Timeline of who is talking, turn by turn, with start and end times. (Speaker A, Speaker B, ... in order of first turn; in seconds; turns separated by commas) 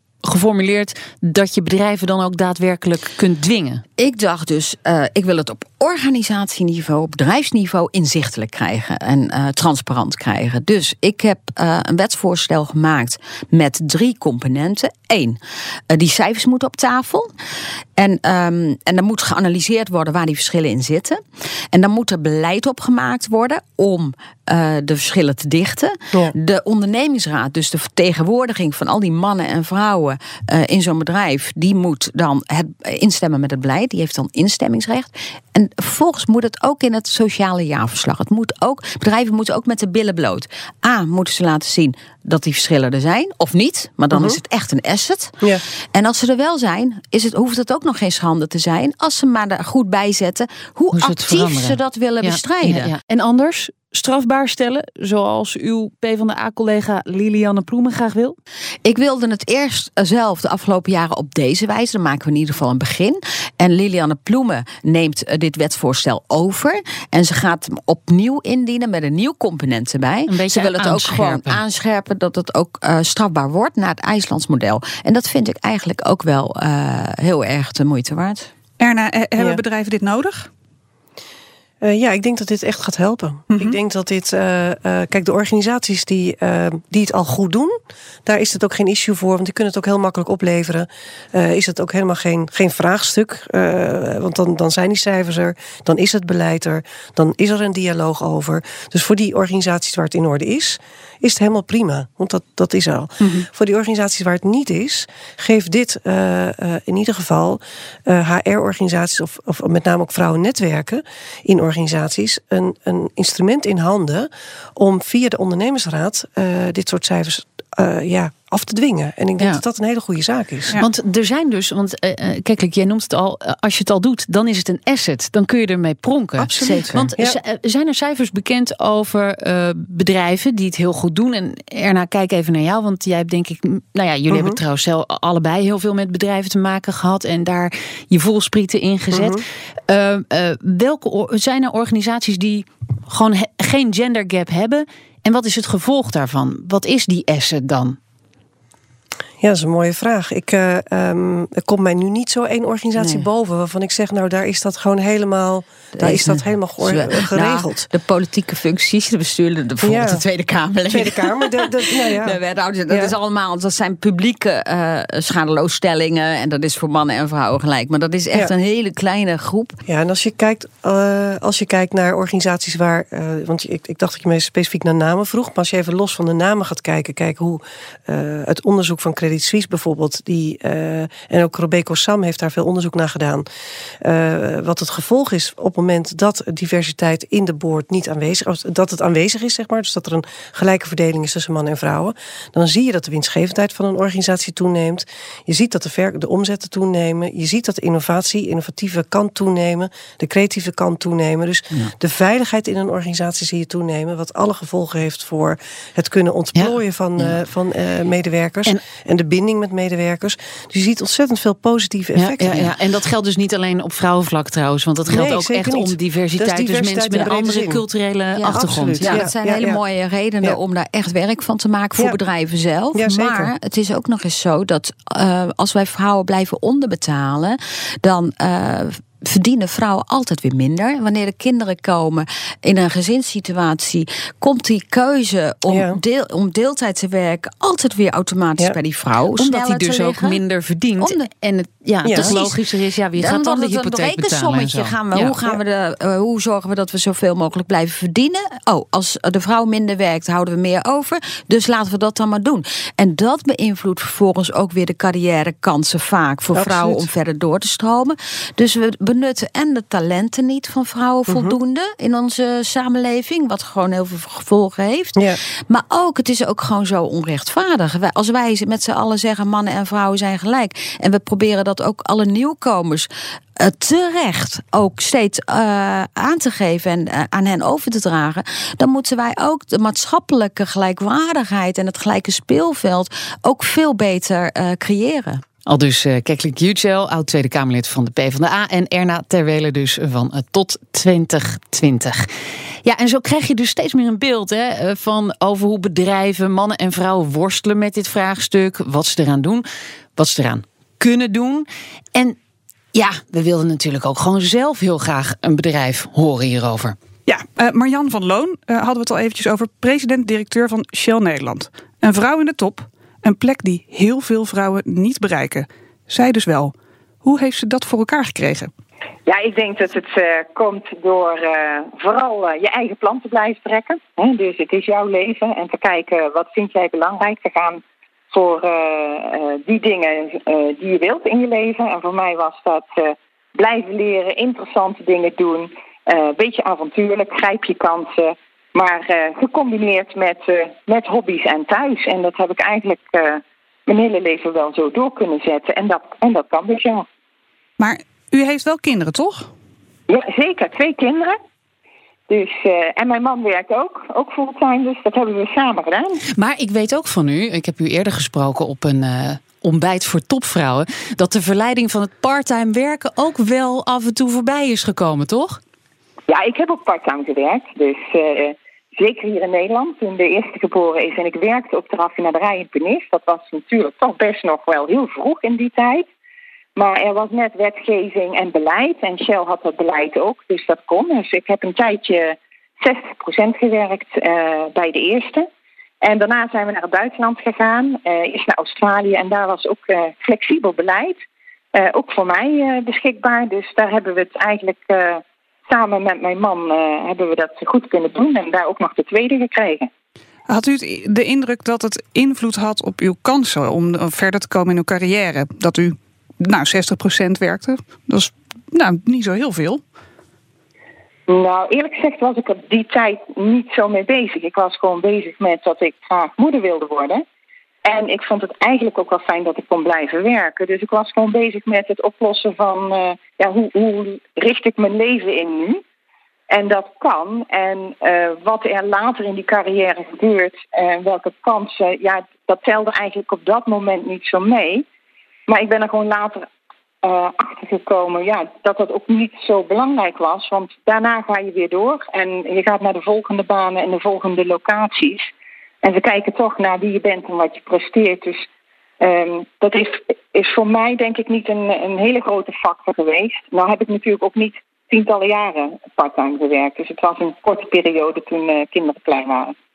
Speaker A: 0.2-3.8, Speaker B: 4.0-15.4, Speaker B: 15.9-17.3, Speaker B: 18.0-21.2, Speaker B: 21.7-45.4, Speaker C: 44.1-44.4, Speaker B: 45.9-52.9, Speaker A: 50.9-58.4, Speaker B: 58.9-78.5, Speaker A: 70.3-71.6, Speaker D: 78.8-80.5, Speaker C: 81.8-120.8, Speaker D: 83.5-83.8, Speaker A: 120.8-148.0, Speaker C: 126.4-127.4, Speaker C: 134.3-134.6, Speaker C: 139.1-139.4, Speaker C: 149.4-157.9, Speaker B: 153.0-153.2, Speaker B: 156.0-169.8, Speaker C: 159.8-160.2, Speaker C: 160.9-162.4, Speaker C: 169.9-183.5, Speaker C: 184.0-212.7, Speaker A: 206.6-207.3, Speaker A: 212.2-219.3, Speaker C: 215.1-217.8, Speaker B: 218.3-240.4, Speaker C: 218.5-219.8, Speaker C: 222.9-223.5, Speaker C: 235.7-236.0, Speaker A: 239.3-245.4, Speaker B: 241.0-241.3, Speaker B: 242.0-273.1, Speaker C: 242.1-242.3, Speaker C: 256.6-257.1, Speaker C: 261.3-261.6, Speaker B: 273.6-285.4, Speaker A: 285.6-292.3, Speaker A: 292.8-299.6, Speaker A: 300.1-302.4, Speaker A: 302.9-307.0, Speaker D: 307.3-318.7, Speaker E: 319.3-347.1, Speaker D: 347.8-349.5, Speaker E: 350.1-351.4, Speaker E: 352.3-356.2, Speaker A: 356.4-365.6, Speaker E: 366.3-376.1, Speaker E: 376.8-385.5, Speaker E: 386.0-391.2, Speaker E: 391.7-399.9, Speaker D: 400.5-409.8, Speaker E: 411.3-417.2, Speaker E: 417.9-425.8, Speaker E: 426.5-434.8, Speaker E: 435.5-436.5, Speaker E: 437.0-445.3, Speaker E: 445.8-448.4, Speaker E: 449.0-459.5